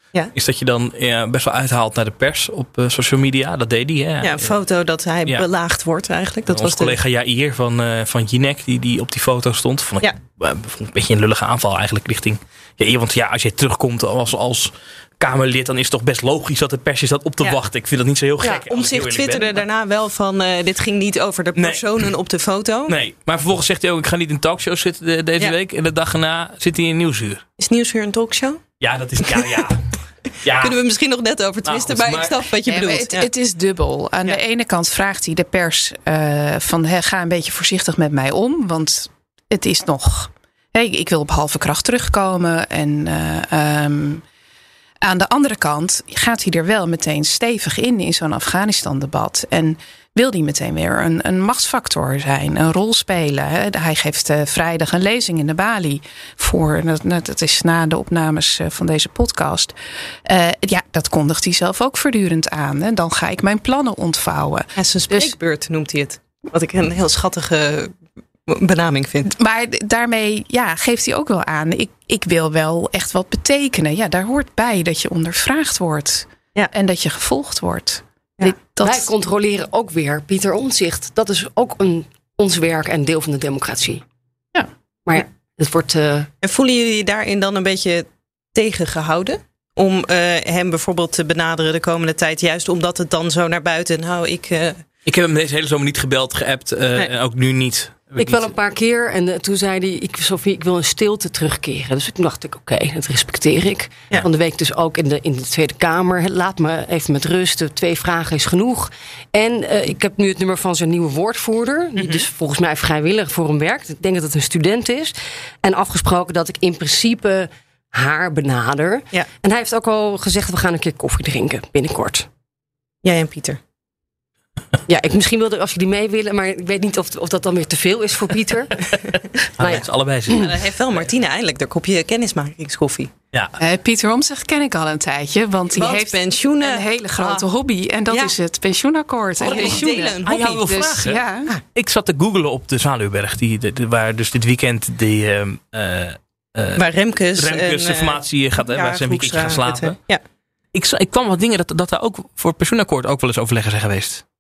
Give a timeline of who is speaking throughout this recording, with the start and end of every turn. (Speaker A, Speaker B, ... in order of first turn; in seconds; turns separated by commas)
Speaker A: 0.3-4.5, Speaker B: 4.2-7.0, Speaker A: 6.5-19.6, Speaker B: 18.4-22.9, Speaker A: 21.5-21.8, Speaker A: 22.9-27.4, Speaker B: 27.6-28.6, Speaker A: 28.8-29.9, Speaker A: 30.4-30.8, Speaker B: 30.6-33.3, Speaker A: 31.6-32.4, Speaker C: 32.6-44.2, Speaker C: 45.0-65.3, Speaker B: 64.8-68.0, Speaker B: 68.5-69.3, Speaker C: 69.2-79.1, Speaker D: 78.8-84.0, Speaker D: 85.0-86.3, Speaker B: 86.4-94.8, Speaker A: 95.0-98.5, Speaker D: 98.2-122.3, Speaker B: 123.0-123.6, Speaker D: 124.9-128.8, Speaker A: 129.6-131.0, Speaker D: 129.6-130.4, Speaker B: 130.3-133.1, Speaker C: 133.6-141.5, Speaker B: 135.7-137.4, Speaker B: 139.4-140.4, Speaker A: 139.5-141.2, Speaker A: 141.7-146.8, Speaker B: 146.8-150.2, Speaker A: 147.3-149.9, Speaker A: 150.7-154.2